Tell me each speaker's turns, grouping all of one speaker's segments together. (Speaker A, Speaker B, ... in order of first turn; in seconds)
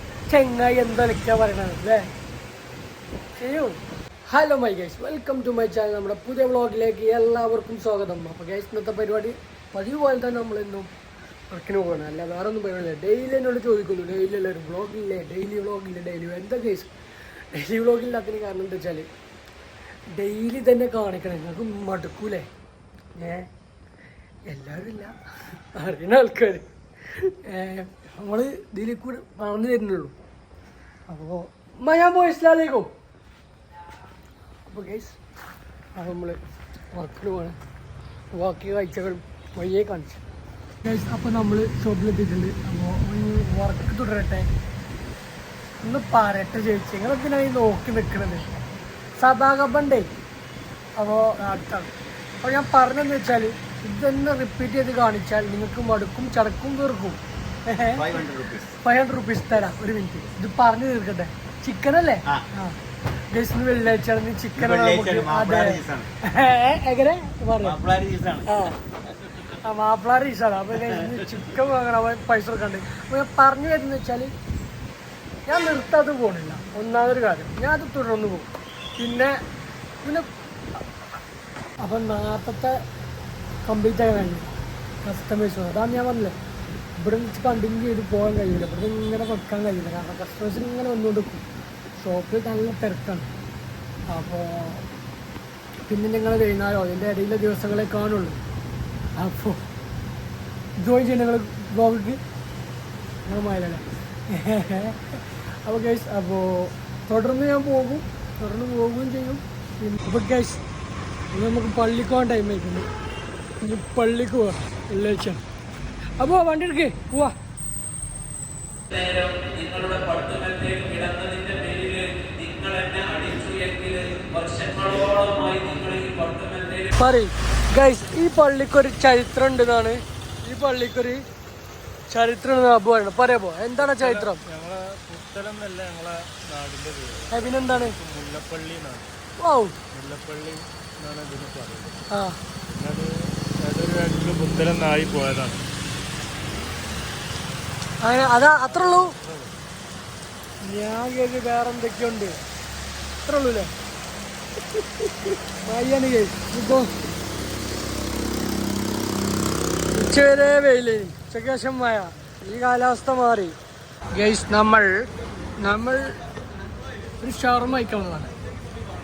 Speaker A: 0.3-2.1, 3.3-10.9, 11.5-19.1, 20.1-22.5, 23.1-23.5, 24.5-30.1, 31.1-32.9, 34.6-35.2, 35.9-36.4, 36.9-37.6, 38.3-40.2, 40.8-44.5, 45.8-48.5, 49.2-50.1, 51.0-62.8, 63.3-67.8, 68.5-68.8, 69.5-74.3, 75.5-79.4, 80.0-80.3, 81.8-82.8, 83.6-84.5, 85.0-86.3, 87.0-93.3, 94.1-94.8, 95.9-98.4, 99.2-99.6, 100.8-102.2, 103.2-110.6, 111.3-112.9, 113.6-115.4, 116.2-117.3, 126.9-131.2, 132.1-134.4, 137.3-138.0, 139.4-139.8, 142.1-142.4, 148.0-149.1, 150.6-152.4, 153.2-153.7, 154.7-156.9, 159.9-163.6, 164.1-165.1, 165.6-166.1, 167.2-168.3
Speaker B: 57.9-58.7, 64.5-66.1, 67.6-68.5, 70.8-71.4
Speaker C: 118.9-126.9
Speaker D: 124.8-126.2, 133.8-139.1, 139.9-142.0, 142.7-145.6, 148.7-149.5